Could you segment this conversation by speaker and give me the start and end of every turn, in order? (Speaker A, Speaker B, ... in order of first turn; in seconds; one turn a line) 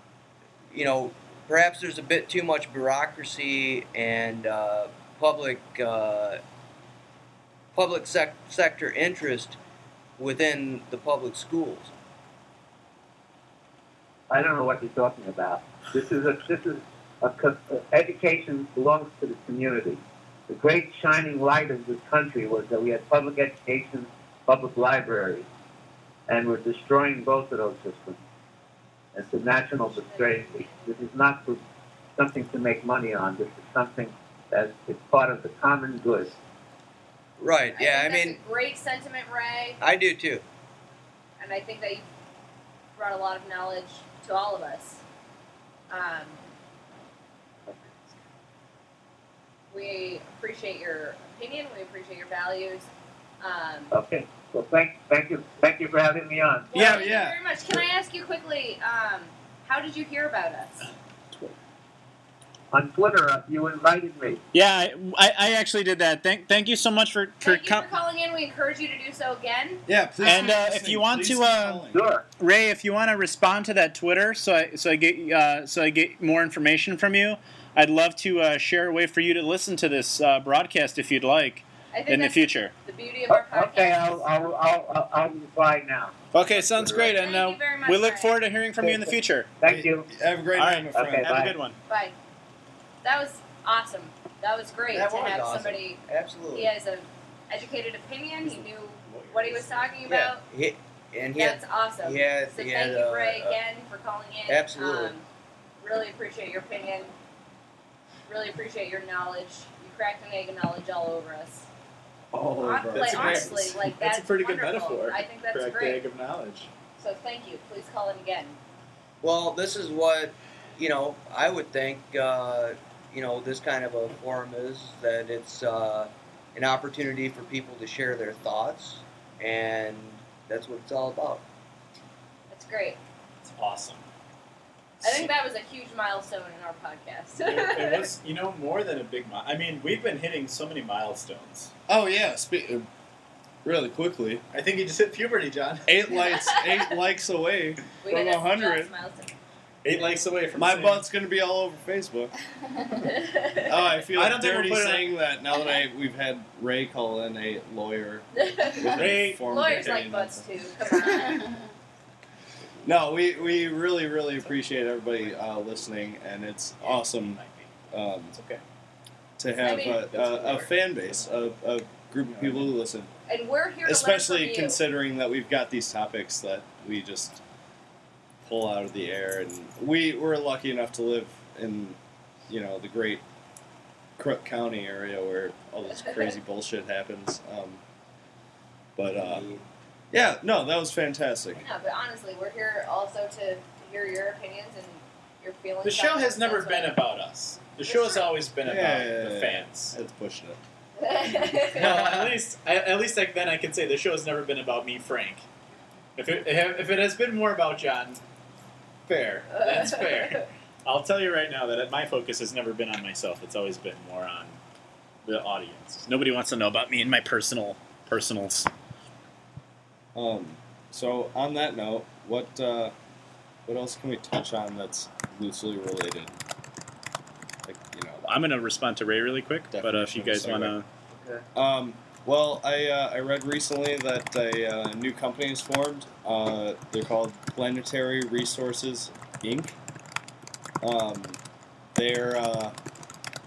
Speaker A: 0.7-6.4
Speaker A: 7.7-9.6
Speaker A: 10.2-11.9
Speaker B: 14.3-25.4
Speaker B: 26.3-28.2
Speaker B: 29.1-31.6
Speaker C: 29.9-31.1
Speaker B: 32.1-36.3
Speaker A: 37.4-38.4
Speaker C: 37.7-39.8
Speaker A: 39.8-40.4
Speaker C: 41.4-42.0
Speaker C: 43.0-45.0
Speaker C: 45.9-46.4
Speaker C: 49.7-52.9
Speaker C: 53.4-53.9
Speaker B: 53.9-56.7
Speaker C: 56.7-60.9
Speaker D: 56.7-57.4
Speaker E: 56.8-57.0
Speaker B: 62.7-64.4
Speaker E: 64.5-67.9
Speaker C: 67.4-70.4
Speaker D: 69.9-72.0
Speaker E: 70.2-71.8
Speaker B: 71.9-72.2
Speaker E: 72.4-82.7
Speaker C: 81.9-84.2
Speaker B: 83.3-86.2
Speaker E: 86.3-89.5
Speaker A: 86.8-87.0
Speaker C: 87.0-88.3
Speaker B: 88.8-90.1
Speaker D: 89.6-91.3
Speaker E: 90.5-91.8
Speaker B: 90.9-91.5
Speaker C: 91.9-92.1
Speaker C: 93.0-96.0
Speaker A: 94.9-96.7
Speaker C: 96.5-100.4
Speaker E: 98.4-99.9
Speaker A: 100.0-103.6
Speaker C: 101.3-105.2
Speaker A: 104.5-105.1
Speaker C: 105.8-107.1
Speaker C: 108.3-111.7
Speaker D: 112.3-113.7
Speaker C: 112.6-116.0
Speaker E: 113.0-116.7
Speaker C: 117.0-118.6
Speaker A: 119.2-131.4
Speaker C: 132.5-133.0
Speaker E: 133.4-134.0
Speaker E: 135.0-135.3
Speaker C: 135.0-138.1
Speaker E: 137.4-141.7
Speaker D: 141.9-142.9
Speaker D: 143.6-144.4
Speaker E: 144.5-146.0
Speaker D: 145.9-148.9
Speaker C: 146.3-146.9
Speaker C: 148.0-149.3
Speaker E: 149.8-151.1
Speaker D: 150.5-152.3
Speaker C: 153.0-153.7
Speaker D: 153.6-160.5
Speaker E: 154.1-155.1
Speaker C: 158.3-161.5
Speaker E: 158.9-159.7
Speaker D: 162.8-168.3
Speaker E: 164.9-165.6
Speaker E: 166.8-168.6
Speaker D: 169.4-173.1
Speaker C: 169.6-170.1
Speaker E: 169.9-171.3
Speaker C: 173.3-174.8
Speaker D: 173.8-177.4
Speaker D: 178.4-182.0
Speaker D: 182.5-183.2
Speaker D: 184.2-187.8
Speaker C: 185.9-186.2
Speaker D: 188.9-189.5
Speaker A: 189.1-189.6
Speaker D: 190.1-191.6
Speaker C: 191.6-197.0
Speaker E: 195.8-199.9
Speaker C: 197.8-198.3
Speaker D: 198.6-200.6
Speaker C: 201.0-201.9
Speaker E: 201.7-205.4
Speaker A: 201.8-202.3
Speaker E: 206.2-208.2
Speaker E: 209.1-214.6
Speaker C: 209.6-210.4
Speaker E: 215.2-218.7
Speaker D: 220.1-222.9
Speaker D: 223.7-226.4
Speaker D: 227.7-228.3
Speaker E: 228.2-230.9
Speaker D: 229.7-230.8
Speaker A: 231.1-231.4
Speaker D: 231.5-239.8
Speaker D: 240.8-241.4
Speaker D: 241.9-242.7